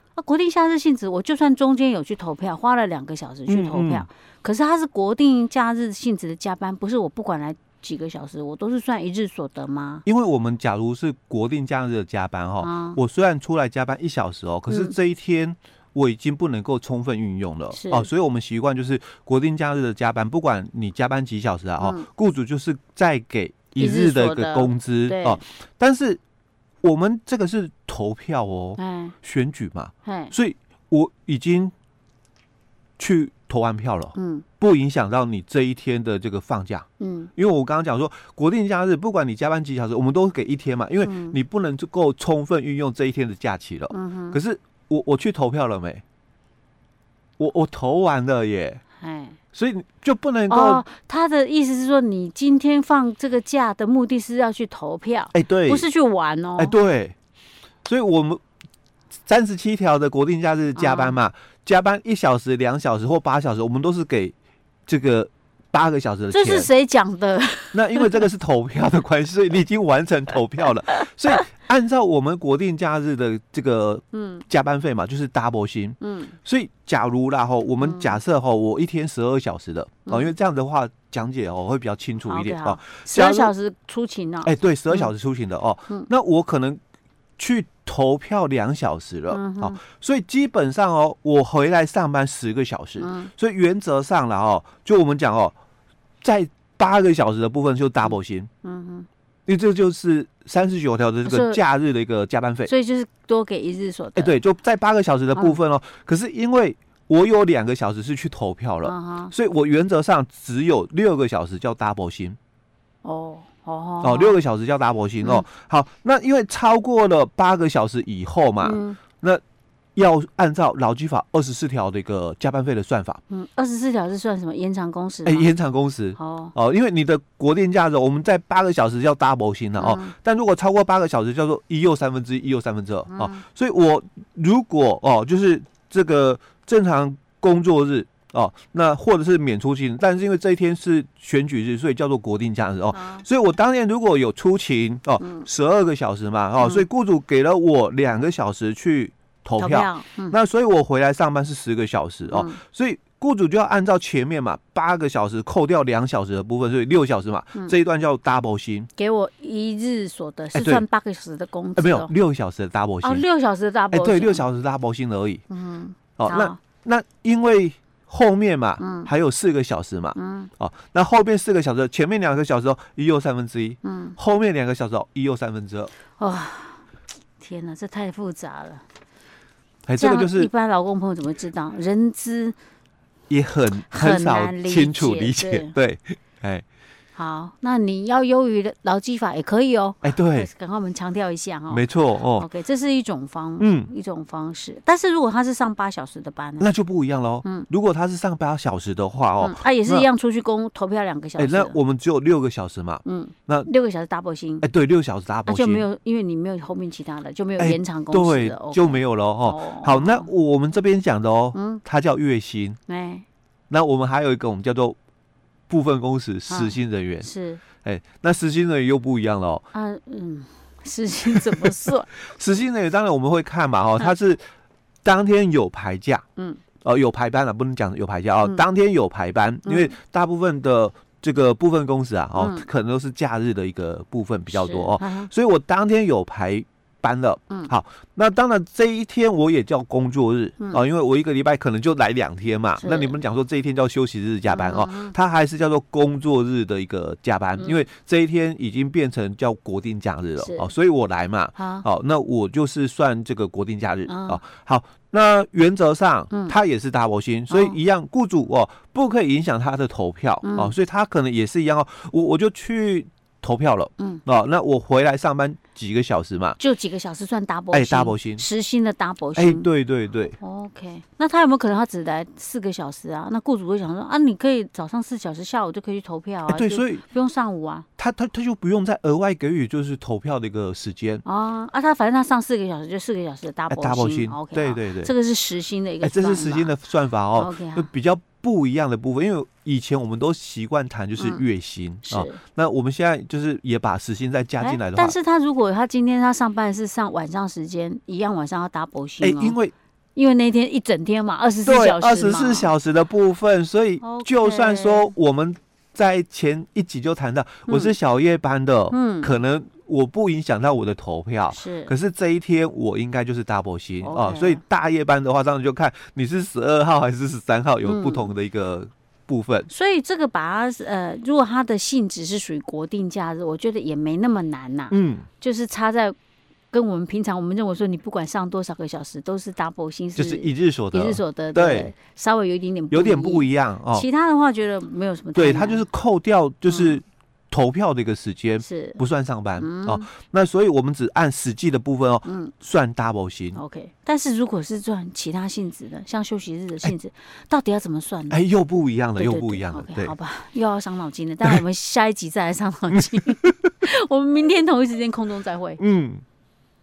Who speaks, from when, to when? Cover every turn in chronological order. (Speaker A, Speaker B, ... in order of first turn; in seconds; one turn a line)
Speaker A: 0.2-10.0
Speaker B: 3.5-4.1
Speaker B: 10.1-26.2
Speaker A: 12.6-13.0
Speaker A: 14.7-14.9
Speaker A: 17.7-18.1
Speaker A: 21.8-22.1
Speaker A: 23.8-25.4
Speaker B: 26.8-31.7
Speaker A: 28.8-29.1
Speaker A: 30.1-30.3
Speaker B: 33.0-36.9
Speaker A: 34.1-34.5
Speaker A: 37.0-37.3
Speaker B: 37.4-46.0
Speaker A: 41.0-41.4
Speaker A: 43.9-44.4
Speaker B: 47.4-48.8
Speaker A: 49.0-49.4
Speaker B: 49.5-50.8
Speaker A: 50.5-56.8
Speaker B: 55.3-55.9
Speaker B: 56.6-57.1
Speaker B: 57.9-58.4
Speaker B: 59.3-64.3
Speaker A: 60.8-61.2
Speaker B: 64.9-66.7
Speaker A: 66.3-68.2
Speaker B: 67.7-83.5
Speaker A: 74.1-74.4
Speaker A: 76.0-76.3
Speaker A: 77.8-78.2
Speaker A: 82.2-85.1
Speaker B: 84.4-86.8
Speaker B: 87.4-95.5
Speaker A: 89.3-89.8
Speaker A: 93.0-93.3
Speaker B: 96.2-98.5
Speaker A: 98.0-99.1
Speaker B: 99.5-102.7
Speaker A: 101.2-101.6
Speaker A: 102.7-104.3
Speaker B: 104.2-112.4
Speaker A: 108.8-109.3
Speaker A: 113.0-114.4
Speaker B: 114.0-119.4
Speaker A: 118.6-119.0
Speaker B: 120.0-123.2
Speaker A: 123.3-125.5
Speaker B: 125.2-158.9
Speaker A: 126.2-126.5
Speaker A: 129.8-130.1
Speaker A: 133.1-133.4
Speaker A: 142.9-143.2
Speaker A: 145.2-145.5
Speaker A: 146.6-146.9
Speaker A: 149.6-150.4
Speaker A: 152.3-152.6
Speaker A: 159.0-162.1
Speaker B: 160.5-160.8
Speaker B: 161.8-163.2
Speaker A: 163.0-164.4
Speaker B: 163.9-165.4
Speaker A: 165.5-166.6
Speaker B: 166.2-175.9
Speaker A: 168.8-169.1
Speaker A: 170.2-170.5
Speaker A: 173.8-174.2
Speaker A: 176.2-176.8
Speaker A: 177.4-178.8
Speaker B: 179.9-180.5
Speaker A: 180.0-182.6
Speaker B: 183.3-186.7
Speaker A: 183.8-185.8
Speaker A: 187.2-196.7
Speaker B: 190.0-190.5
Speaker B: 191.7-192.5
Speaker B: 193.6-193.9
Speaker B: 196.6-200.1
Speaker A: 199.4-201.8
Speaker B: 201.4-203.7
Speaker A: 203.1-204.7
Speaker B: 204.6-205.9
Speaker A: 205.5-210.3
Speaker B: 207.6-212.8
Speaker A: 211.5-211.8
Speaker A: 212.9-213.2
Speaker B: 213.7-215.0
Speaker B: 215.7-217.3
Speaker A: 216.5-217.6
Speaker B: 217.8-219.6
Speaker A: 219.7-222.1
Speaker B: 221.3-224.4
Speaker B: 225.0-226.2
Speaker B: 226.8-266.6
Speaker A: 229.7-229.9
Speaker A: 232.4-232.7
Speaker A: 234.5-235.3
Speaker A: 242.8-243.2
Speaker A: 244.5-245.1
Speaker A: 247.6-247.8
Speaker A: 250.4-250.7
Speaker A: 251.6-251.8
Speaker A: 254.1-254.4
Speaker A: 256.3-256.6
Speaker A: 257.5-257.8
Speaker A: 260.4-260.7
Speaker A: 266.6-269.7
Speaker B: 267.7-268.4
Speaker B: 269.4-270.4
Speaker A: 270.4-277.9
Speaker B: 276.5-277.0
Speaker B: 278.0-281.2
Speaker A: 281.2-286.8
Speaker B: 283.7-285.1
Speaker B: 286.0-295.2
Speaker A: 287.4-287.9
Speaker A: 291.2-291.4
Speaker A: 292.1-292.4
Speaker A: 294.6-299.6
Speaker B: 299.2-299.7
Speaker A: 300.1-302.7
Speaker B: 301.7-319.7
Speaker A: 304.0-305.1
Speaker A: 307.7-307.9
Speaker A: 308.9-309.4
Speaker A: 311.5-311.9
Speaker A: 314.0-314.6
Speaker A: 317.9-318.3
Speaker A: 319.7-326.2
Speaker B: 324.9-325.3
Speaker A: 326.7-335.8
Speaker B: 330.2-331.9
Speaker B: 332.9-334.1
Speaker B: 335.4-343.6
Speaker A: 336.7-337.0
Speaker A: 338.6-339.0
Speaker A: 339.6-340.1
Speaker A: 342.2-342.5
Speaker A: 343.6-348.4
Speaker B: 348.3-350.1
Speaker A: 349.2-355.8
Speaker B: 352.9-353.7
Speaker B: 355.8-356.2